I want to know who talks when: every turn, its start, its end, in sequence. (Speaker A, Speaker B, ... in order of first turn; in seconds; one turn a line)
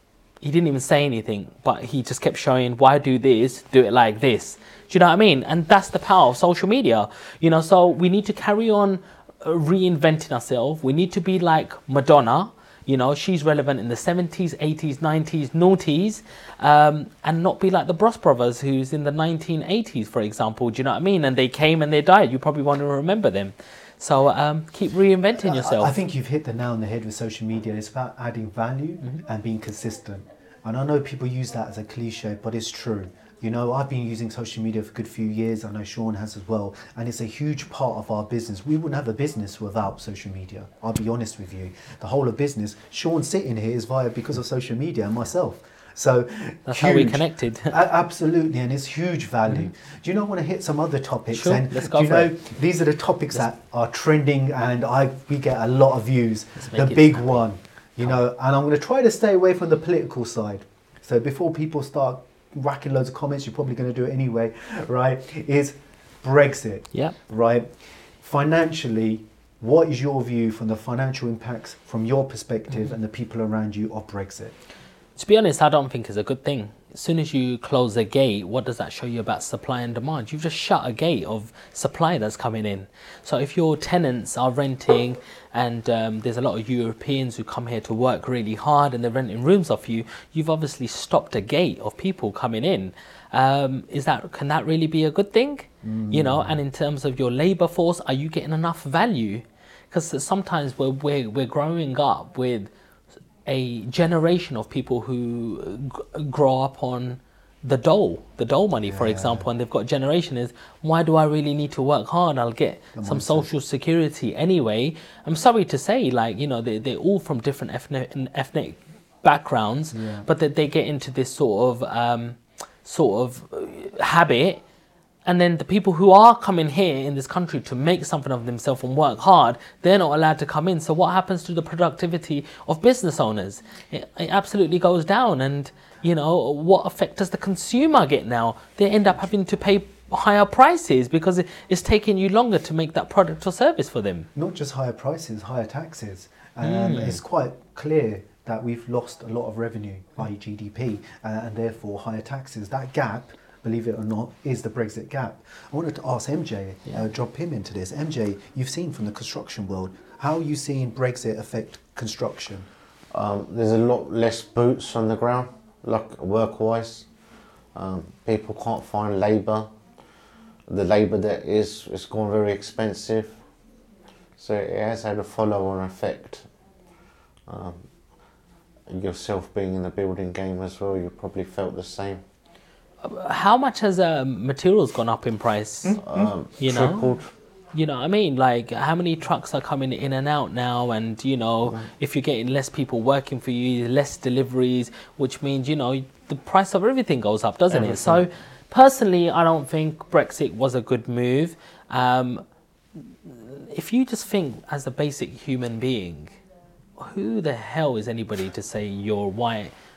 Speaker A: 0.4-25.9
Speaker B: 25.4-74.5
Speaker A: 46.7-47.8
Speaker A: 51.3-52.3
Speaker A: 56.6-57.4
Speaker A: 75.2-102.7
Speaker B: 95.8-96.6
Speaker A: 103.4-124.6
Speaker B: 108.9-109.5
Speaker B: 113.0-113.5
Speaker B: 119.9-120.3
Speaker A: 125.2-144.3
Speaker B: 144.3-162.7
Speaker A: 146.6-147.2
Speaker C: 163.1-167.1
Speaker C: 167.7-169.7
Speaker C: 170.7-173.4
Speaker C: 174.4-176.5
Speaker C: 177.5-177.8
Speaker C: 178.9-182.2
Speaker A: 183.0-186.0
Speaker B: 185.8-186.3
Speaker C: 185.9-187.3
Speaker A: 186.6-187.2
Speaker A: 187.7-202.4
Speaker B: 197.7-198.2
Speaker A: 203.2-206.3
Speaker A: 207.0-209.7